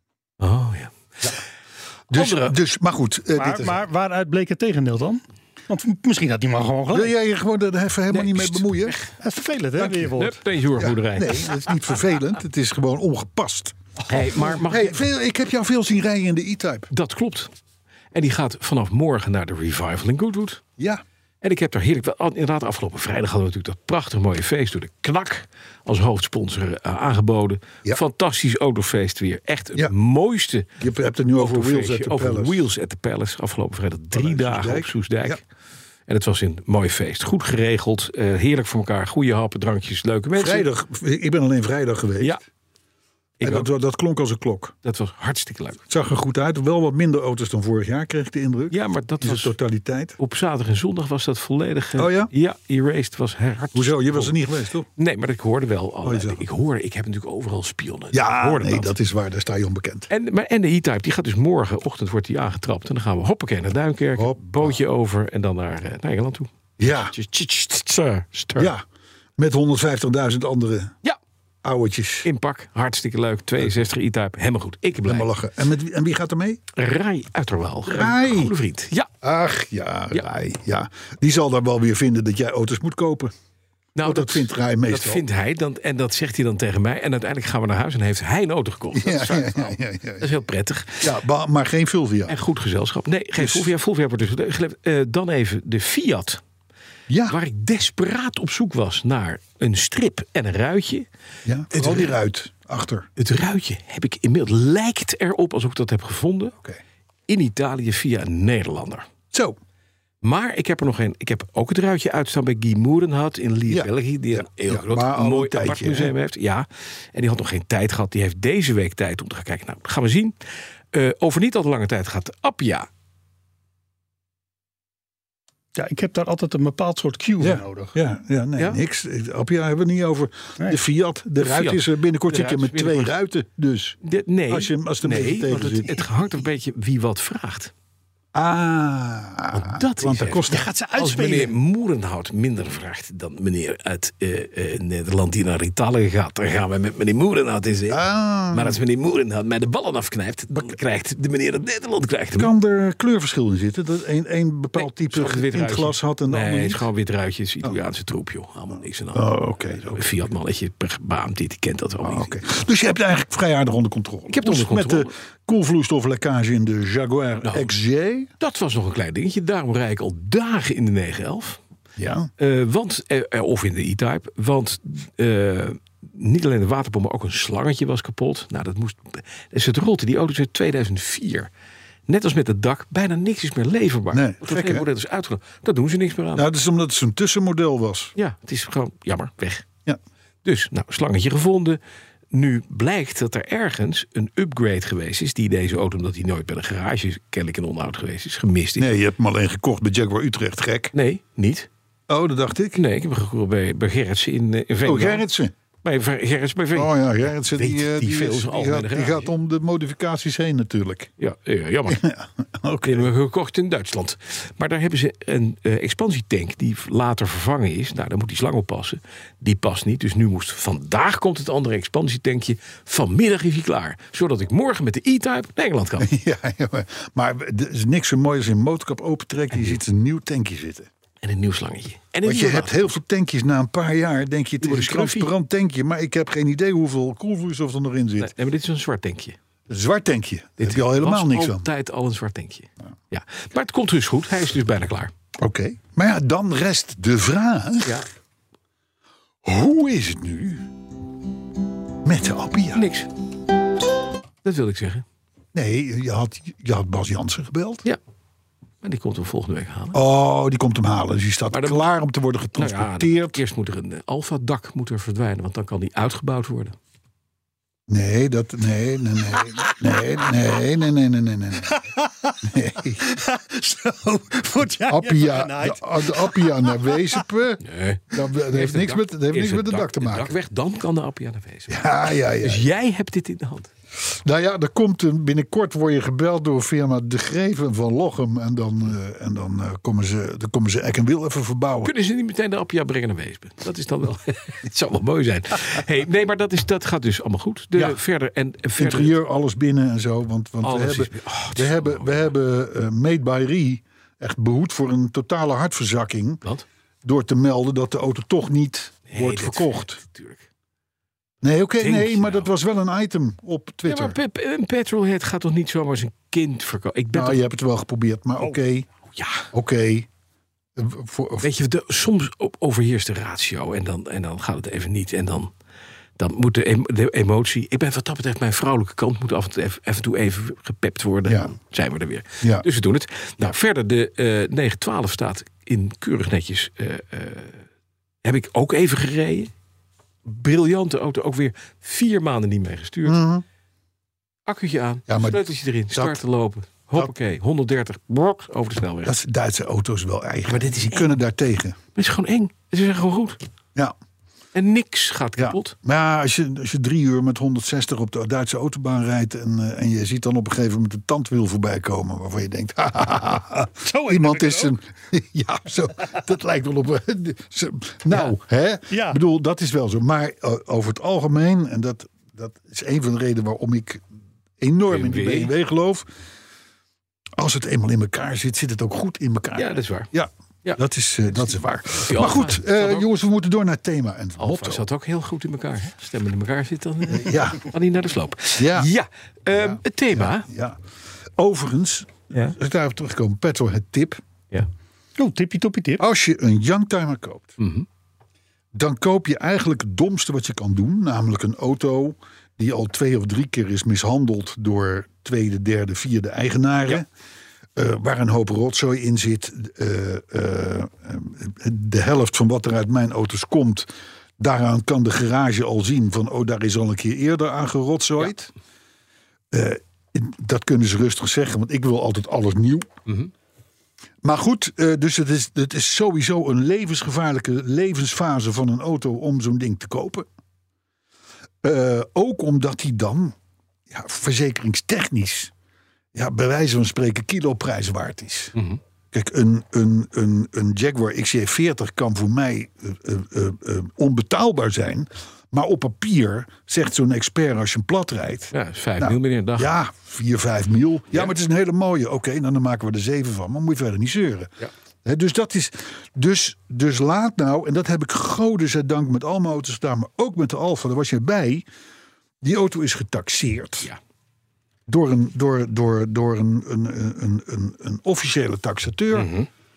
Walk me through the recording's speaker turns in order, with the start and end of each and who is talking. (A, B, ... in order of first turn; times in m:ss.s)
0:00.4-0:01.4 A
0:02.1-0:03.8 B
0:02.1-0:02.6 A
0:03.4-0:07.1 C
0:06.9-0:09.0 B
0:08.1-0:09.1 A
0:09.2-0:10.4 C
0:09.8-0:11.6 A
0:10.8-0:13.8 B
0:14.1-0:15.0 A
0:14.5-0:16.9 B
0:16.9-0:17.5 A
0:18.1-0:20.6 A
0:20.8-0:21.0 B
0:21.4-0:30.7 A
0:30.8-0:32.7 B
0:31.4-0:35.4 A
0:34.1-0:35.4 B
0:36.1-0:40.7 A
0:40.4-0:42.4 B
0:43.4-0:43.7 A
0:43.4-0:44.7 B
0:44.8-0:45.8 A
0:45.9-0:50.2 B
0:48.7-0:49.5 A
0:50.2-0:54.3 A
0:52.0-0:52.3 B
0:53.7-0:54.9 B
0:55.0-0:58.9 A
0:56.0-0:56.4 B
0:58.1-1:00.1 B
1:00.1-1:08.7 A
1:04.2-1:04.8 B
1:06.8-1:07.2 B
1:08.6-1:08.8 B
1:09.4-1:11.0 B
1:11.6-1:12.3 B
1:12.2-1:15.3 A
1:15.0-1:16.6 B
1:16.7-1:19.1 A
1:17.8-1:18.5 B
1:19.2-1:23.3 B
1:24.0-1:31.1 A
1:24.0-1:25.2 B
1:28.9-1:30.3 B
1:31.0-1:32.4 B
1:32.3-1:36.4 A
1:33.4-1:33.7 B
1:37.1-1:37.4 B
1:37.3-1:41.1 A
1:41.4-1:43.1 B
1:41.7-1:42.2 A
1:43.2-1:46.6 A
1:47.3-1:49.1 A
1:49.3-1:49.6 B
1:50.2-2:00.4 A
1:53.7-1:56.1 B
2:00.9-2:02.9 A
2:05.8-2:08.0 C
2:07.4-2:14.0 B
2:11.4-2:13.2 A
2:14.0-2:17.7 A
2:14.5-2:16.0 B
2:18.3-2:20.7 B
2:19.5-2:32.5 A
2:20.5-2:21.5 C
2:27.9-2:28.8 B
2:32.4-2:36.9 B
2:34.8-2:42.4 A
2:39.1-2:40.3 B
2:42.0-2:48.3 B
2:44.3-2:45.1 A
2:47.4-2:47.7 A
2:48.4-2:51.6 A
2:52.0-2:52.3 B
2:52.4-3:01.5 A
3:02.1-3:06.5 A
3:04.1-3:04.9 B
3:06.4-3:08.1 B
3:08.2-3:09.7 A
3:10.4-3:11.8 A
3:12.3-3:18.9 A
3:18.8-3:20.9 B
3:20.9-3:21.7 A
3:22.1-3:22.8 B
3:22.8-3:25.2 A
3:24.8-3:25.5 B
3:25.8-3:29.3 A
3:26.7-3:31.1 B
3:31.2-3:32.0 A
3:31.9-3:33.1 B
3:32.8-3:46.1 A
3:46.0-3:50.9 B
3:49.5-3:49.8 A
3:51.2-3:53.0 A
3:52.2-3:58.3 B
3:54.6-3:55.3 A
3:58.2-3:59.4 A
3:59.7-4:01.7 B
4:00.6-4:05.1 A
4:05.4-4:08.0 B
4:09.4-4:10.7 B
4:12.0-4:12.8 B
4:12.7-4:13.1 A
4:14.4-4:15.0 A
4:15.5-4:17.8 B
4:18.8-4:20.0 A
4:19.9-4:23.4 B
4:21.5-4:21.8 A
4:22.6-4:26.8 A
4:27.9-4:31.8 B
4:31.8-4:32.4 C
4:32.4-4:33.1 B
4:33.0-4:37.2 C
4:34.6-4:40.3 B
4:37.6-4:43.7 A
4:41.7-4:42.7 B
4:44.1-4:51.9 B
4:51.8-4:59.1 A
4:58.8-5:06.4 B
5:00.6-5:02.3 A
5:07.0-5:10.0 B
5:09.1-5:10.5 A
5:11.4-5:14.2 B
5:11.8-5:12.5 A
5:13.9-5:17.4 A
5:17.1-5:18.9 B
5:19.1-5:19.5 A
5:19.5-5:20.1 B
5:20.8-5:21.5 B
5:21.4-5:25.5 A
5:26.2-5:37.6 A
5:31.2-5:31.5 B
5:38.2-5:39.5 A
5:40.2-5:43.2 A
5:43.1-5:43.4 B
5:44.5-5:49.2 A
5:45.1-5:46.2 B
5:49.0-5:51.8 B
5:50.5-5:51.2 A
5:51.9-5:53.4 A
5:54.5-5:55.8 A
5:55.4-6:14.0 B
6:03.8-6:04.8 C
6:08.9-6:09.2 C
6:14.6-6:16.1 B
6:14.9-6:15.5 A
6:17.4-6:24.9 B
6:19.6-6:20.1 A
6:21.4-6:23.1 A
6:24.4-6:30.5 A
6:27.1-6:27.7 B
6:28.6-6:28.9 B
6:29.5-6:30.8 B
6:31.4-6:34.2 B
6:35.2-6:36.0 C
6:36.0-6:37.6 B
6:37.6-6:37.9 A
6:38.7-6:47.1 B
6:47.8-6:58.5 B
6:59.5-7:02.9 B
7:03.1-7:03.3 A
7:04.2-7:10.3 B
7:11.6-7:13.4 B
7:13.9-7:15.5 B
7:16.1-7:18.6 B
7:18.6-7:18.8 A
7:19.1-7:34.5 B
7:28.5-7:29.7 A
7:35.0-7:41.6 B
7:42.4-7:43.9 B
7:44.9-7:49.3 B
7:49.1-7:49.5 A